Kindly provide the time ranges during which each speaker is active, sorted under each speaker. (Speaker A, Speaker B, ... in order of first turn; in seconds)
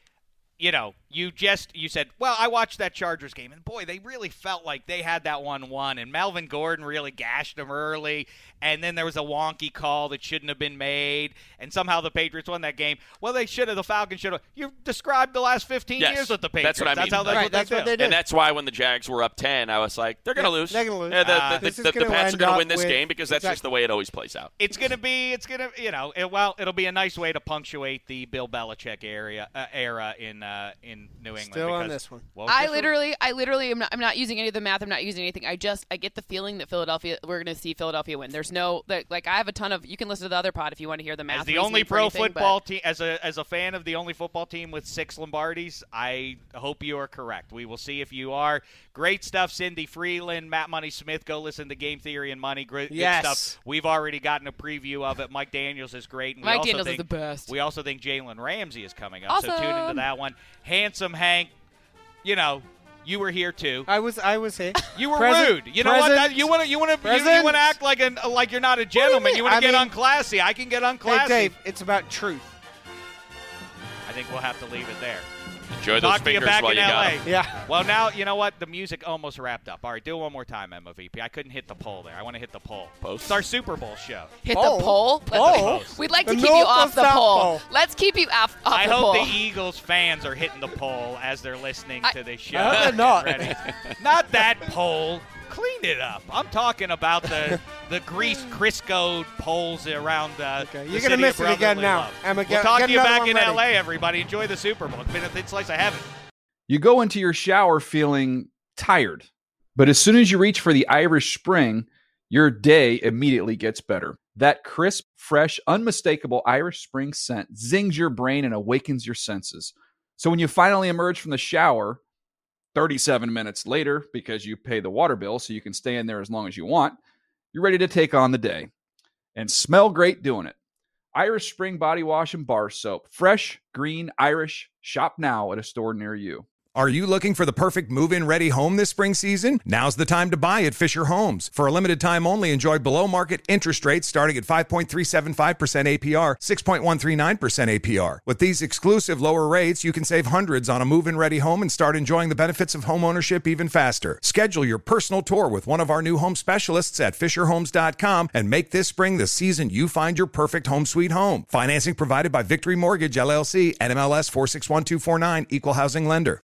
Speaker A: 0.6-18.0, 21.2-21.7, 24.6-33.0, 41.3-61.5, 62.2-63.9, 65.0-71.5, 74.1-75.3, 76.0-84.3, 85.3-86.0, 88.7-106.1
Speaker B: 16.0-24.5, 75.8-77.2, 83.0-83.4, 92.7-93.0, 93.6-93.9
Speaker C: 17.2-18.2, 20.4-23.6, 31.4-32.3, 52.9-53.5, 63.9-66.5, 67.0-67.8, 69.0-69.9, 71.0-72.5, 77.2-77.6, 84.5-87.7, 92.5-93.6, 100.6-103.6
Speaker D: 32.5-42.6, 56.4-57.5, 59.3-60.1, 84.4-89.4
Speaker E: 106.7-122.0, 122.8-127.0, 127.5-128.7, 129.3-130.6, 131.1-136.5
Speaker F: 136.8-166.4